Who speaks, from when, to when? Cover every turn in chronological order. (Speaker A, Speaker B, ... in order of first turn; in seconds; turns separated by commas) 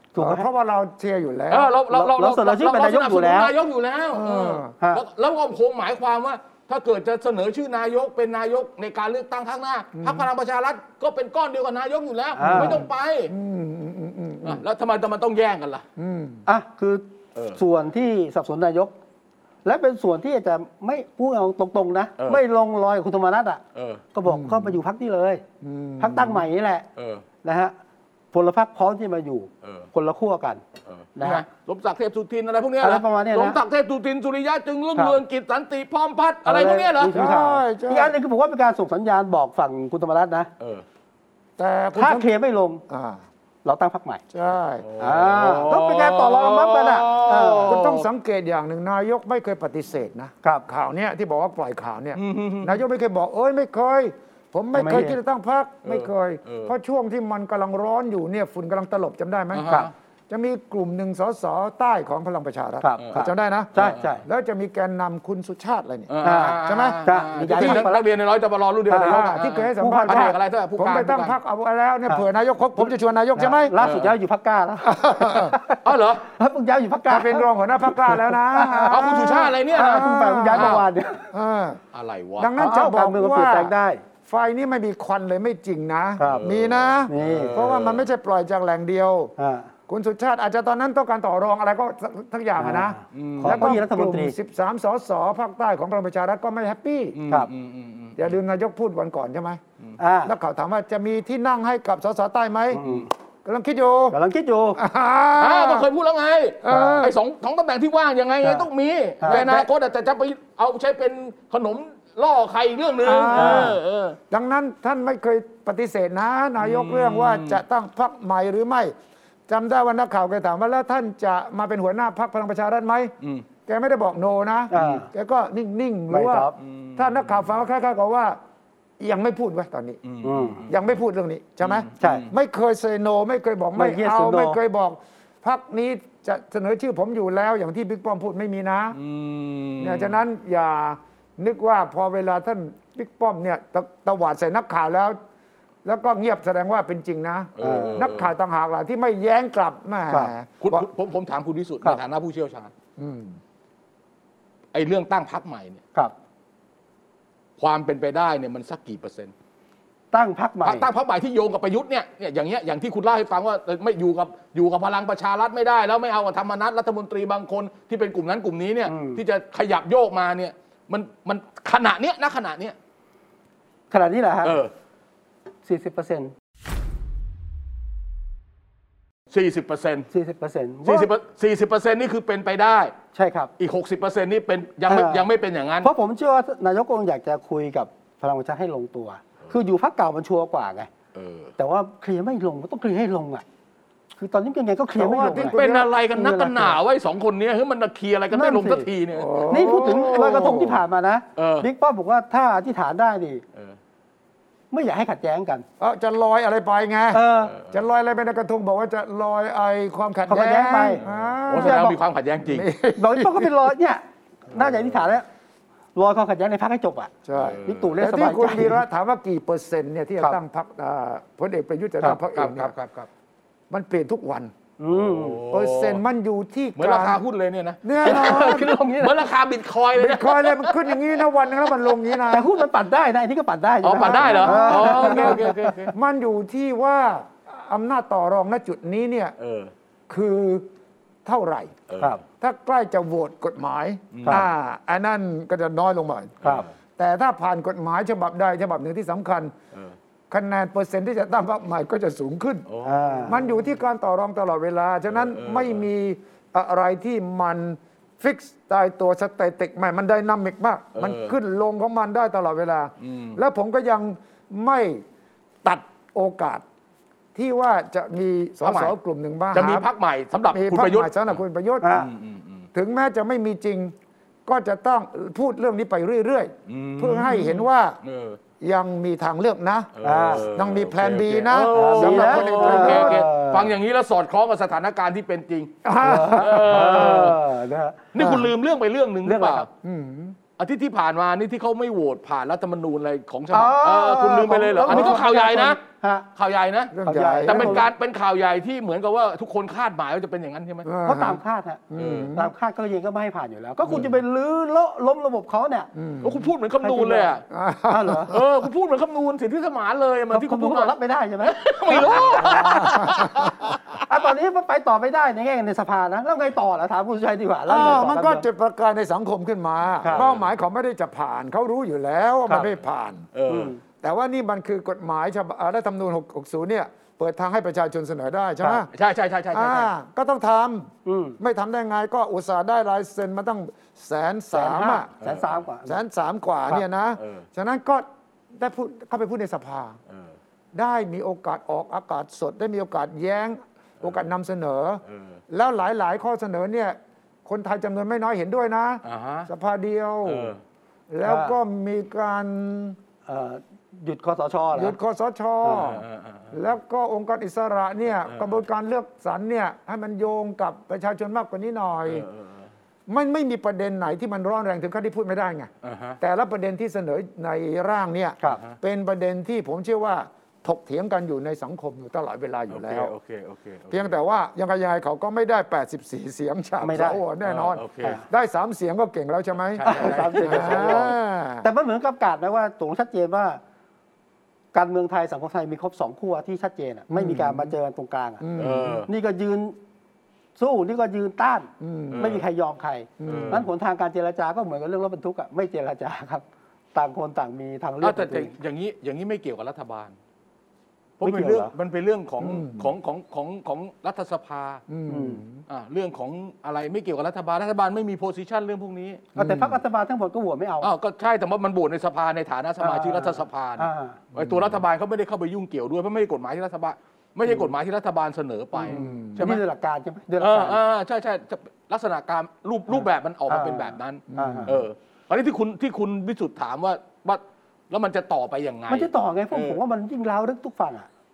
Speaker A: 0.1-0.5, Speaker B: 0.1-1.8, Speaker C: 1.5-13.3, Speaker A: 1.9-3.5, Speaker B: 4.1-4.7, Speaker B: 9.9-10.3, Speaker A: 12.3-12.8, Speaker B: 12.5-14.6, Speaker C: 14.4-15.8, Speaker B: 16.0-16.4, Speaker A: 16.4-18.9, Speaker A: 19.6-23.6, Speaker C: 23.7-24.0, Speaker A: 24.1-25.4, Speaker B: 24.2-24.8, Speaker B: 25.6-26.4, Speaker A: 26.0-26.9, Speaker C: 26.9-27.2, Speaker A: 27.4-27.7, Speaker A: 28.3-30.6, Speaker C: 29.6-29.9, Speaker C: 30.9-37.1, Speaker A: 31.2-31.4, Speaker A: 32.8-33.6, Speaker A: 36.4-40.5, Speaker B: 37.1-38.1, Speaker B: 41.6-42.3, Speaker A: 42.0-42.8, Speaker B: 42.9-43.2, Speaker A: 43.6-44.2, Speaker B: 44.3-44.9, Speaker C: 44.8-48.1, Speaker A: 45.0-47.8, Speaker B: 47.6-67.9, Speaker C: 52.1-52.8, Speaker A: 54.7-55.2, Speaker C: 55.8-56.7, Speaker C: 59.5-59.9, Speaker A: 62.8-64.2, Speaker C: 63.7-64.1, Speaker C: 66.1-71.3, Speaker A: 66.2-68.0, Speaker A: 68.9-70.3, Speaker B: 69.0-73.7, Speaker A: 72.8-75.8, Speaker C: 73.8-74.1, Speaker B: 74.8-75.6, Speaker C: 75.8-76.3, Speaker A: 76.3-79.1, Speaker B: 77.1-81.8, Speaker C: 78.9-80.8, Speaker A: 79.7-81.3, Speaker C: 81.9-82.5, Speaker B: 82.4-83.7, Speaker A: 82.6-84.0, Speaker B: 84.3-89.3, Speaker A: 86.2-86.4, Speaker C: 86.2-88.1, Speaker A: 87.1-87.6, Speaker A: 89.4-89.7, Speaker B: 89.9-97.2, Speaker A: 92.6-94.3, Speaker C: 93.1-93.8, Speaker C: 97.1-98.2, Speaker B: 98.2-99.6, Speaker A: 100.0-100.3, Speaker B: 100.2-102.8, Speaker A: 102.7-103.1, Speaker B: 103.4-104.2, Speaker A: 104.1-104.8, Speaker B: 104.8-105.9, Speaker C: 105.4-114.2, Speaker B: 106.6-107.2, Speaker A: 106.7-107.0, Speaker B: 109.3-109.7, Speaker B: 113.0-118.9, Speaker A: 113.3-113.8, Speaker C: 116.6-117.6, Speaker B: 119.5-123.1, Speaker B: 123.7-128.4, Speaker A: 124.7-125.1, Speaker A: 126.1-126.5, Speaker C: 126.6-127.3, Speaker B: 129.0-130.0, Speaker C: 130.0-130.7, Speaker A: 130.2-130.6, Speaker B: 130.7-139.0, Speaker C: 131.6-132.3, Speaker A: 132.0-132.3, Speaker A: 133.8-134.6, Speaker C: 138.9-140.2, Speaker B: 139.8-145.2, Speaker B: 145.8-150.8, Speaker C: 147.6-148.3, Speaker A: 147.6-148.1, Speaker C: 150.6-152.7, Speaker B: 153.0-153.4, Speaker C: 154.7-155.8, Speaker C: 157.6-159.3, Speaker A: 160.1-160.9, Speaker C: 160.6-172.8, Speaker A: 168.9-169.2, Speaker A: 173.9-174.6, Speaker C: 174.4-174.7, Speaker A: 175.6-176.3, Speaker C: 179.3-180.1, Speaker A: 180.1-181.1, Speaker C: 180.8-182.9, Speaker A: 183.1-183.5, Speaker C: 183.6-185.9, Speaker A: 184.9-185.2, Speaker A: 185.8-190.9, Speaker C: 191.1-191.5, Speaker A: 191.6-193.4, Speaker A: 194.2-195.6, Speaker B: 194.9-195.9, Speaker C: 195.5-199.6, Speaker A: 196.1-196.8, Speaker A: 198.3-198.9, Speaker B: 199.1-200.8, Speaker A: 199.5-203.4, Speaker C: 201.4-201.7, Speaker A: 204.7-205.7, Speaker B: 205.8-213.7, Speaker A: 207.1-207.5, Speaker C: 207.5-207.7, Speaker A: 210.3-211.0, Speaker C: 211.0-212.7, Speaker A: 211.5-211.9, Speaker A: 213.0-215.3, Speaker C: 214.6-215.1, Speaker A: 215.9-217.1, Speaker B: 217.2-222.7, Speaker C: 217.3-217.9, Speaker A: 217.6-218.8, Speaker C: 222.3-223.1, Speaker B: 223.7-224.5, Speaker A: 224.8-225.4, Speaker C: 224.9-226.0, Speaker B: 225.5-227.2, Speaker C: 226.8-230.9, Speaker B: 227.8-228.7, Speaker A: 228.0-229.2, Speaker B: 229.9-232.5, Speaker A: 232.3-235.9, Speaker C: 233.8-235.9, Speaker B: 233.9-239.3, Speaker C: 239.4-239.7, Speaker B: 240.1-240.7, Speaker B: 241.2-241.8, Speaker C: 241.9-242.2, Speaker B: 242.4-246.4, Speaker C: 244.1-244.4, Speaker C: 246.4-246.7, Speaker B: 247.0-249.5, Speaker B: 250.3-252.7, Speaker C: 252.7-253.5, Speaker A: 252.8-253.4, Speaker B: 253.2-265.0, Speaker C: 255.1-255.8, Speaker C: 260.9-261.3, Speaker C: 263.0-263.4, Speaker B: 265.6-266.6, Speaker B: 267.3-269.9, Speaker C: 268.6-268.9, Speaker C: 269.5-271.3, Speaker B: 270.5-272.0, Speaker A: 271.8-272.1, Speaker C: 271.9-272.6, Speaker B: 272.7-273.9, Speaker B: 274.4-278.0, Speaker C: 276.7-278.4, Speaker B: 278.6-283.2, Speaker C: 279.9-285.8, Speaker A: 280.0-280.4, Speaker A: 281.7-283.7, Speaker B: 285.8-287.3, Speaker A: 286.0-288.5, Speaker C: 286.3-287.4, Speaker C: 288.1-289.7, Speaker A: 289.2-289.7, Speaker B: 289.8-290.4, Speaker C: 290.6-295.8, Speaker A: 293.5-296.2, Speaker B: 294.9-295.2, Speaker C: 296.4-296.9, Speaker B: 296.9-297.9, Speaker A: 297.0-297.9, Speaker C: 297.4-300.9, Speaker B: 300.8-302.5, Speaker A: 301.0-301.8, Speaker C: 301.9-302.3, Speaker A: 302.3-305.9, Speaker C: 303.8-304.1, Speaker B: 305.9-306.5, Speaker C: 306.2-307.4, Speaker A: 306.8-307.3, Speaker B: 307.5-308.4, Speaker A: 307.9-308.4, Speaker C: 308.3-313.8, Speaker A: 310.3-313.2, Speaker B: 312.4-313.5, Speaker A: 314.0-318.4, Speaker B: 317.7-323.2, Speaker C: 320.0-320.4, Speaker C: 323.3-323.7, Speaker A: 323.5-323.8, Speaker B: 324.0-328.9, Speaker C: 328.9-329.9, Speaker B: 329.5-335.1, Speaker A: 331.0-331.4, Speaker A: 334.5-336.0, Speaker C: 335.2-335.6, Speaker B: 335.8-340.0, Speaker C: 337.2-337.4, Speaker C: 340.1-340.3, Speaker B: 340.7-350.5, Speaker C: 345.1-345.4, Speaker C: 349.0-349.5, Speaker C: 350.2-350.6, Speaker B: 351.1-353.0, Speaker A: 351.2-351.6, Speaker A: 353.2-354.9, Speaker B: 354.7-362.3, Speaker C: 355.8-356.5, Speaker C: 362.1-362.7, Speaker B: 363.1-373.1, Speaker C: 365.8-366.2, Speaker C: 372.7-374.1, Speaker B: 373.9-381.7, Speaker A: 376.8-377.2, Speaker C: 377.4-378.2, Speaker C: 379.7-381.1, Speaker A: 379.8-381.1, Speaker A: 381.6-383.6, Speaker A: 384.7-388.4, Speaker B: 387.1-387.7, Speaker B: 388.4-389.1, Speaker C: 388.6-389.1, Speaker A: 389.1-389.8, Speaker A: 390.6-398.5, Speaker B: 391.8-392.4, Speaker C: 392.1-392.4, Speaker B: 393.2-393.6, Speaker C: 393.2-393.6, Speaker C: 398.0-400.1, Speaker C: 401.2-404.8, Speaker A: 401.2-401.7, Speaker B: 402.4-402.9, Speaker B: 404.9-405.6, Speaker A: 405.1-405.4, Speaker C: 405.7-409.3, Speaker B: 409.4-409.8, Speaker A: 409.4-410.9, Speaker C: 410.8-419.6, Speaker A: 412.8-414.2, Speaker B: 414.3-414.8, Speaker A: 418.8-420.8, Speaker B: 418.9-419.5, Speaker C: 420.4-429.8, Speaker A: 422.9-424.7, Speaker B: 424.3-424.7, Speaker A: 428.9-431.1